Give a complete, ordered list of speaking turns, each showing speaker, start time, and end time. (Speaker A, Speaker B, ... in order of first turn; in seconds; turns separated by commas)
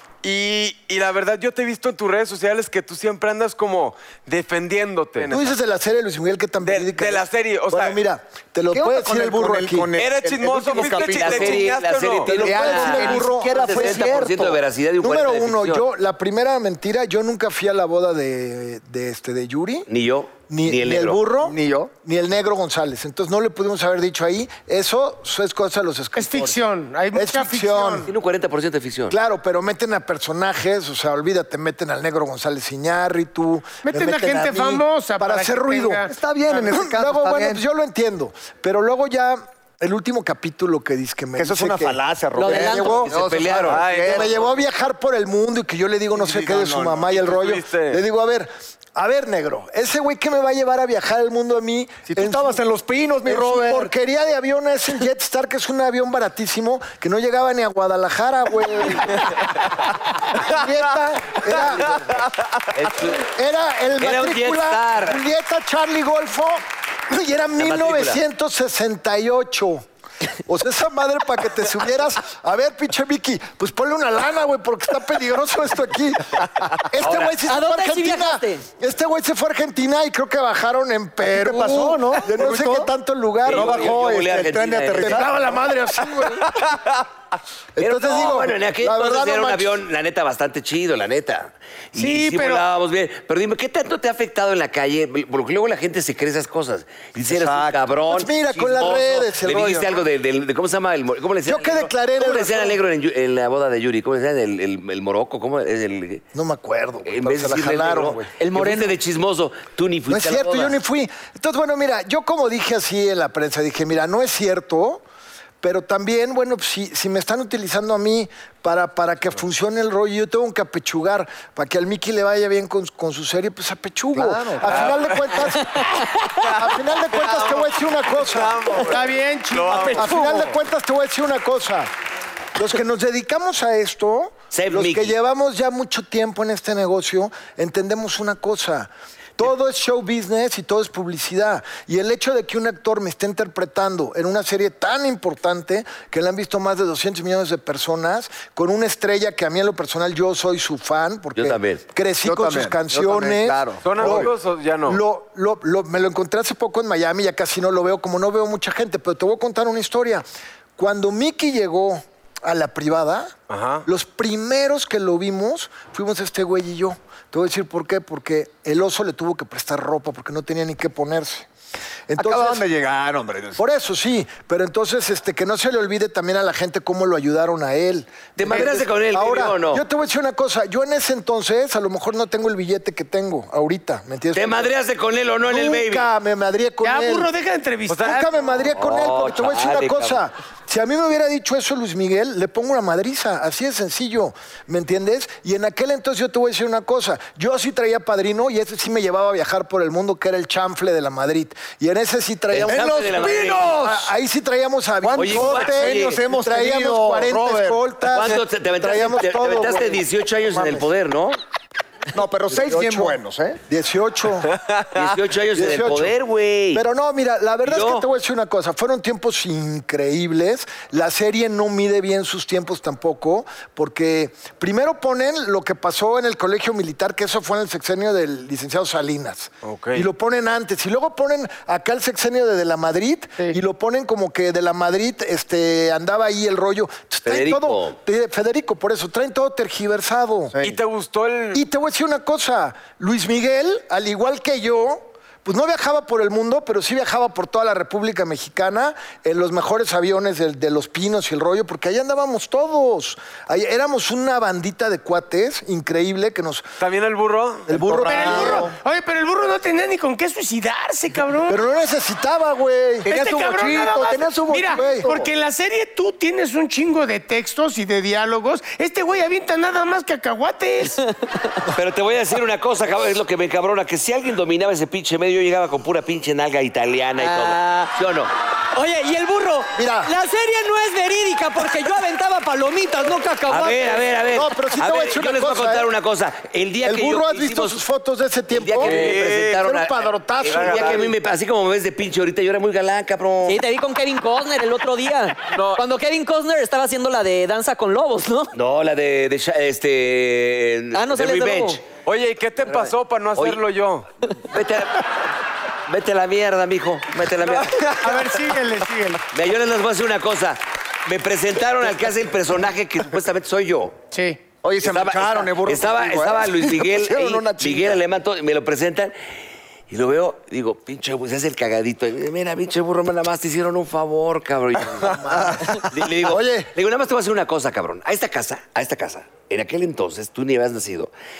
Speaker A: 0.2-5.5, Speaker B: 5.3-9.9, Speaker A: 6.6-8.0, Speaker C: 8.7-11.7, Speaker A: 10.0-12.3, Speaker D: 10.7-15.9, Speaker B: 12.3-14.1, Speaker C: 12.3-14.6, Speaker B: 15.0-19.9, Speaker D: 19.9-21.2, Speaker B: 20.5-26.6, Speaker C: 21.4-21.9, Speaker E: 26.1-28.1, Speaker B: 27.1-28.1, Speaker D: 28.1-29.2, Speaker B: 29.1-36.0, Speaker E: 33.8-36.7, Speaker C: 36.1-37.6, Speaker B: 36.7-43.1, Speaker C: 41.4-44.3, Speaker F: 42.4-43.1, Speaker D: 43.1-43.9, Speaker A: 43.7-44.5, Speaker B: 44.0-52.6, Speaker C: 46.1-47.2, Speaker A: 47.1-48.0, Speaker C: 52.1-53.9, Speaker B: 53.2-59.5, Speaker B: 60.3-62.2, Speaker A: 61.7-62.7, Speaker D: 62.7-63.2, Speaker B: 63.2-69.8, Speaker D: 64.0-65.2, Speaker D: 67.6-68.2, Speaker B: 70.5-84.0, Speaker D: 77.0-77.4, Speaker F: 77.5-78.6, Speaker C: 81.2-82.9, Speaker C: 83.5-85.3, Speaker D: 83.5-85.4, Speaker B: 85.0-86.5, Speaker A: 86.5-86.8, Speaker B: 87.8-89.8, Speaker D: 87.8-106.2, Speaker E: 92.0-92.7, Speaker C: 97.2-97.8, Speaker B: 98.1-100.0, Speaker B: 101.5-102.8, Speaker B: 106.3-108.3, Speaker D: 107.0-110.8, Speaker F: 108.4-109.0, Speaker B: 110.1-115.0, Speaker B: 115.6-125.9, Speaker C: 124.1-125.0, Speaker A: 124.6-125.5, Speaker F: 125.6-126.3, Speaker A: 126.4-130.3, Speaker B: 126.5-128.8, Speaker E: 128.8-130.0, Speaker C: 129.8-130.6, Speaker B: 129.9-131.9, Speaker B: 132.6-154.3, Speaker D: 134.5-135.2, Speaker D: 151.3-151.8, Speaker C: 152.2-154.3, Speaker A: 153.8-155.0, Speaker B: 154.8-160.3, Speaker B: 160.8-163.3, Speaker A: 163.5-163.8, Speaker B: 163.9-171.5, Speaker B: 172.1-172.6, Speaker C: 172.2-173.6, Speaker B: 173.6-184.7, Speaker D: 178.4-179.8, Speaker D: 184.3-186.1, Speaker B: 185.4-187.3, Speaker E: 186.8-188.3, Speaker A: 187.9-188.2, Speaker B: 188.0-210.9, Speaker D: 188.7-190.2, Speaker D: 202.5-203.8, Speaker C: 202.7-204.1, Speaker C: 205.0-207.8, Speaker D: 205.1-206.2, Speaker D: 208.1-211.4, Speaker C: 212.1-213.6, Speaker B: 212.5-214.5, Speaker A: 214.5-214.9, Speaker D: 214.9-216.8, Speaker B: 215.5-216.1, Speaker B: 216.7-240.6, Speaker D: 217.6-218.1, Speaker A: 229.6-230.1, Speaker D: 237.3-238.0, Speaker C: 240.5-240.8, Speaker A: 240.6-241.6, Speaker B: 241.5-256.7, Speaker A: 256.8-257.7, Speaker B: 257.7-258.7, Speaker C: 257.7-258.7, Speaker E: 258.1-261.6, Speaker B: 261.5-263.1, Speaker C: 263.1-265.3, Speaker E: 263.1-271.0, Speaker B: 264.7-265.1, Speaker D: 271.7-278.3, Speaker F: 277.2-277.9, Speaker F: 278.7-284.0, Speaker B: 279.8-280.1, Speaker D: 283.5-287.8, Speaker B: 284.3-285.9, Speaker B: 286.8-291.1, Speaker D: 288.5-293.6, Speaker A: 288.8-289.6, Speaker A: 290.4-291.1, Speaker F: 293.5-298.5, Speaker A: 295.5-295.8, Speaker D: 298.5-301.9, Speaker F: 300.9-301.8, Speaker A: 302.1-304.1, Speaker D: 302.6-303.6, Speaker D: 304.4-305.3, Speaker D: 305.9-307.9, Speaker A: 307.4-308.3, Speaker E: 308.0-309.2, Speaker D: 309.3-314.0, Speaker E: 314.1-314.4, Speaker C: 314.6-318.0, Speaker D: 314.8-319.1, Speaker D: 319.9-331.1, Speaker B: 325.0-326.7, Speaker C: 325.3-325.8